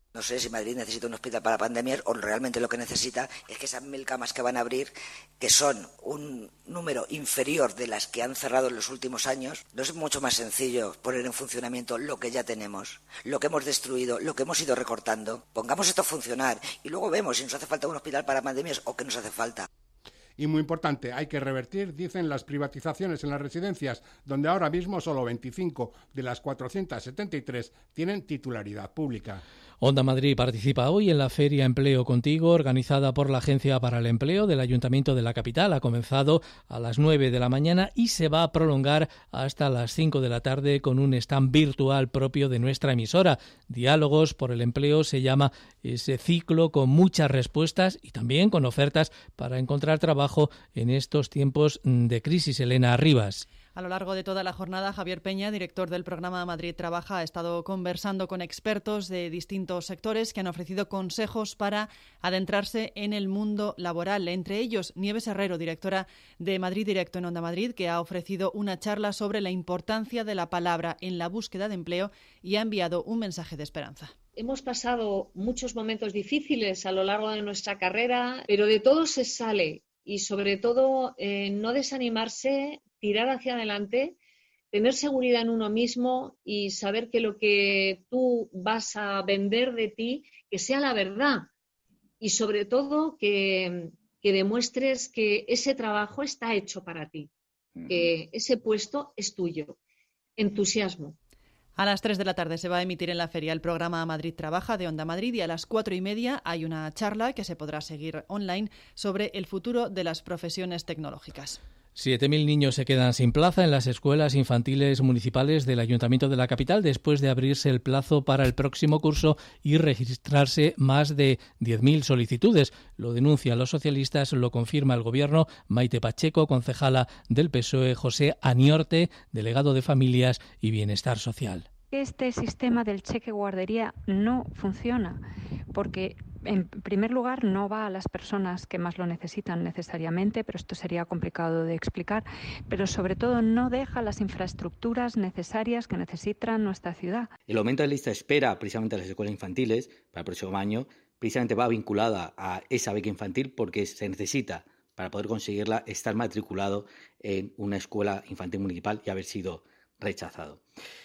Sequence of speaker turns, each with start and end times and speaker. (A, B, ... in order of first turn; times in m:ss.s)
0:00.1-0:19.7 A
0:20.4-0:29.4 B
0:29.8-0:53.4 C
0:53.7-1:14.1 D
1:14.4-1:24.2 E
1:24.7-1:31.5 E
1:32.2-1:37.3 E
1:37.8-1:39.8 E
1:40.4-1:41.1 E
1:41.8-1:51.6 D
1:52.0-2:11.7 C
2:11.9-2:15.2 F
2:15.7-2:27.3 F
2:27.5-2:40.6 G